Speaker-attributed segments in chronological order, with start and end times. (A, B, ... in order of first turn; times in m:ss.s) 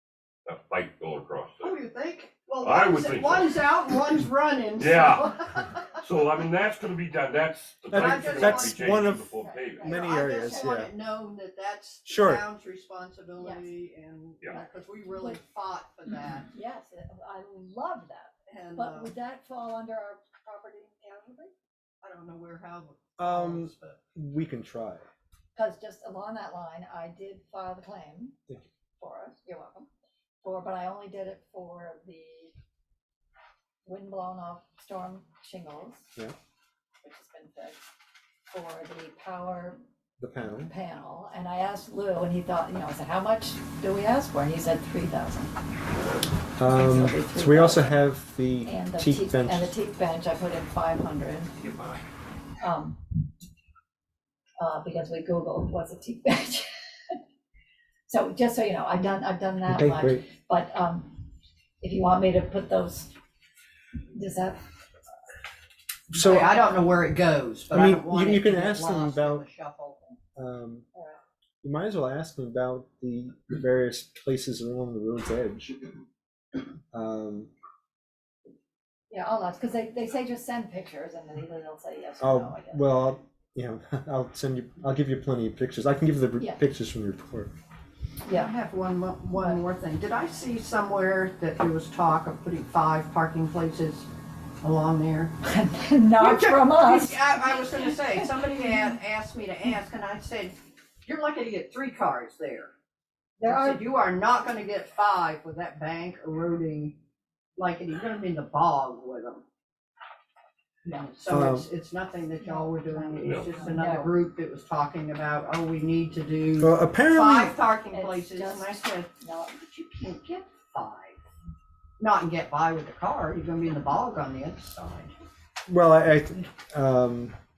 0:00.4-0:01.7 A
0:01.6-0:06.0 B
0:02.6-0:03.6 A
0:04.8-0:10.0 A
0:07.9-0:09.0 B
0:07.9-0:10.9 C
0:09.4-0:10.7 D
0:09.8-0:16.5 B
0:12.0-0:12.4 C
0:13.4-0:13.7 D
0:14.5-0:15.4 D
0:16.4-0:21.5 D
0:18.5-0:19.1 B
0:22.0-0:24.0 B
0:23.2-0:25.1 C
0:25.5-0:28.4 D
0:29.0-0:29.9 D
0:30.4-0:32.5 D
0:33.8-0:36.1 D
0:37.0-0:37.8 D
0:38.5-0:39.8 D
0:40.2-0:40.7 C
0:40.4-0:45.5 D
0:46.6-0:49.8 C
0:46.6-0:48.0 D
0:48.6-0:51.5 D
0:52.6-0:53.0 D
0:54.6-0:57.2 D
0:58.0-1:01.2 D
0:59.7-1:00.2 C
1:01.8-1:03.1 D
1:04.1-1:04.6 D
1:06.1-1:10.1 B
1:06.1-1:06.5 C
1:07.7-1:09.4 C
1:10.4-1:10.8 C
1:11.6-1:15.8 C
1:16.9-1:17.5 C
1:19.1-1:22.9 D
1:22.2-1:27.5 C
1:28.2-1:28.5 D
1:28.3-1:34.1 B
1:29.3-1:29.6 D
1:34.6-1:35.3 B
1:35.4-1:39.0 D
1:36.2-1:42.7 B
1:43.4-1:43.8 D
1:43.4-1:47.0 B
1:47.6-1:49.4 B
1:50.8-1:51.2 D
1:51.1-2:01.2 B
1:51.3-1:51.7 C
1:52.4-1:54.1 D
1:53.2-1:53.5 A
1:56.6-1:57.6 C
1:57.9-1:59.5 D
2:02.0-2:05.1 B
2:05.7-2:07.4 C